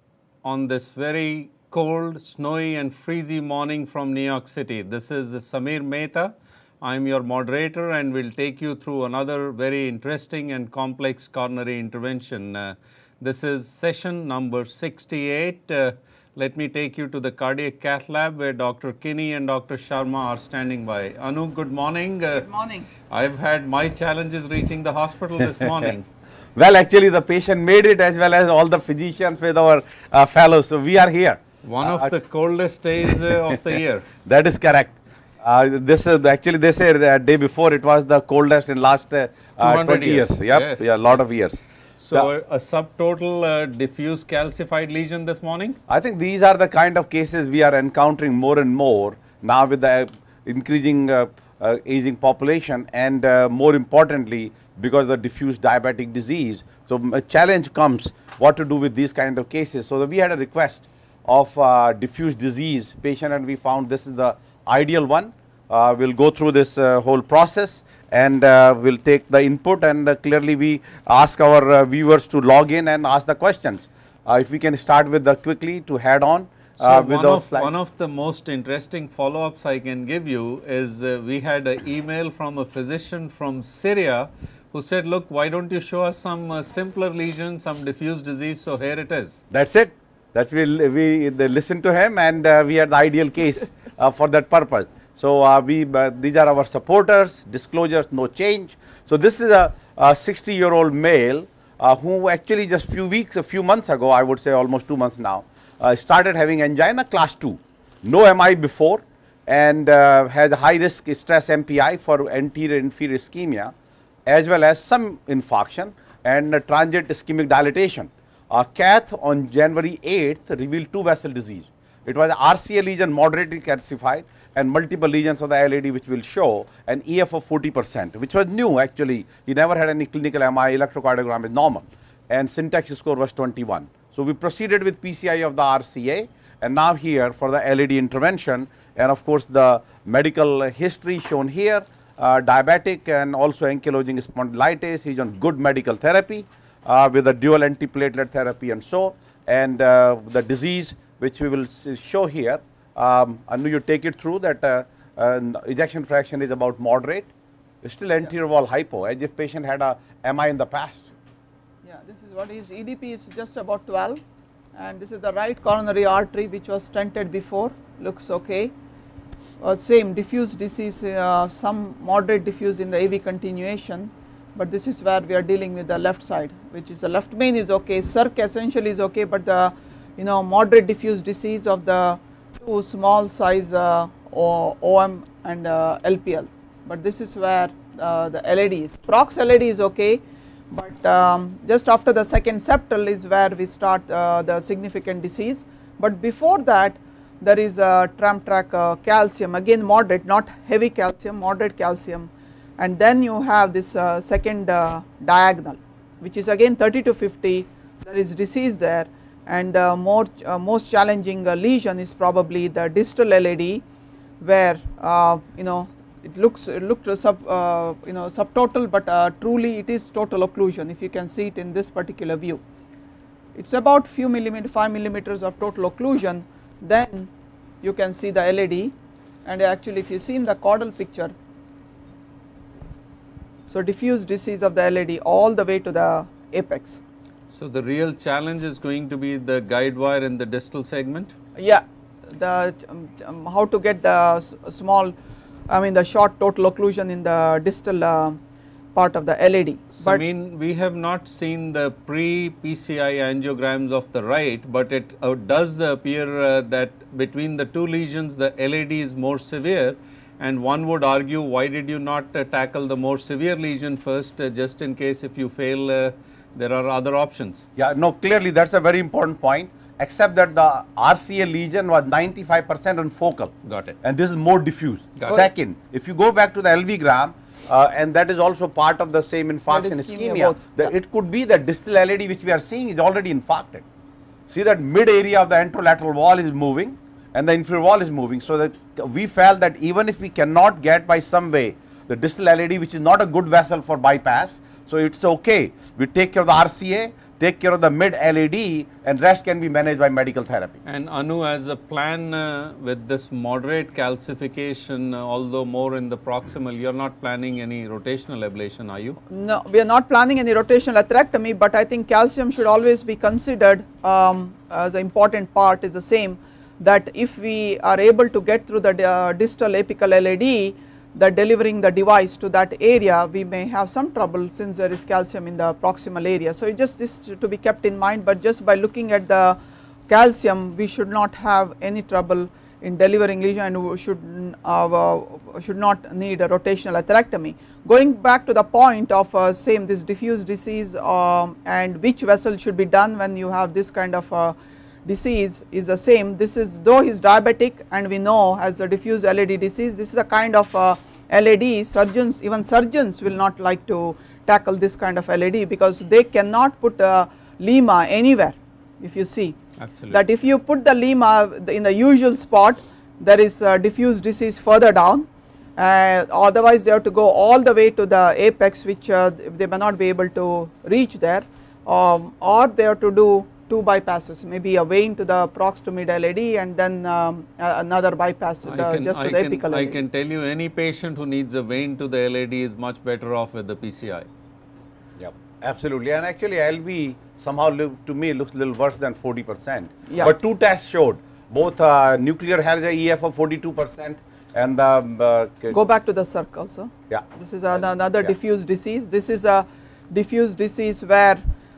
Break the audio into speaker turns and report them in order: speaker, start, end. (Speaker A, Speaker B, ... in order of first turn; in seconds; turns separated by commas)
Speaker A: 0.4-22.5, Speaker B: 22.4-22.9, Speaker A: 23.1-26.0, Speaker C: 26.6-32.1, Speaker A: 31.6-34.1, Speaker C: 33.1-33.5, Speaker C: 34.2-42.3, Speaker A: 39.6-41.2, Speaker A: 42.0-45.8, Speaker C: 45.9-77.8, Speaker A: 76.8-89.4, Speaker C: 89.5-113.7, Speaker C: 114.2-157.3, Speaker C: 157.8-161.1, Speaker B: 161.8-164.2, Speaker B: 164.8-168.7, Speaker B: 169.6-213.8, Speaker B: 214.4-222.6, Speaker B: 223.5-227.3, Speaker B: 227.8-228.9, Speaker B: 229.4-231.3, Speaker B: 233.7-237.0, Speaker A: 237.5-241.3, Speaker B: 241.6-245.1, Speaker B: 245.7-248.4, Speaker B: 248.9-250.2, Speaker A: 249.9-267.6, Speaker C: 267.8-283.8, Speaker A: 273.6-273.9, Speaker A: 275.2-275.4, Speaker B: 279.7-280.6, Speaker C: 284.5-300.8, Speaker A: 300.9-309.2, Speaker B: 309.3-329.6, Speaker B: 330.1-359.6, Speaker A: 359.8-360.2, Speaker B: 360.1-380.0, Speaker A: 378.6-384.3, Speaker C: 385.2-395.7, Speaker B: 390.1-390.3, Speaker B: 395.7-401.4, Speaker C: 397.1-398.3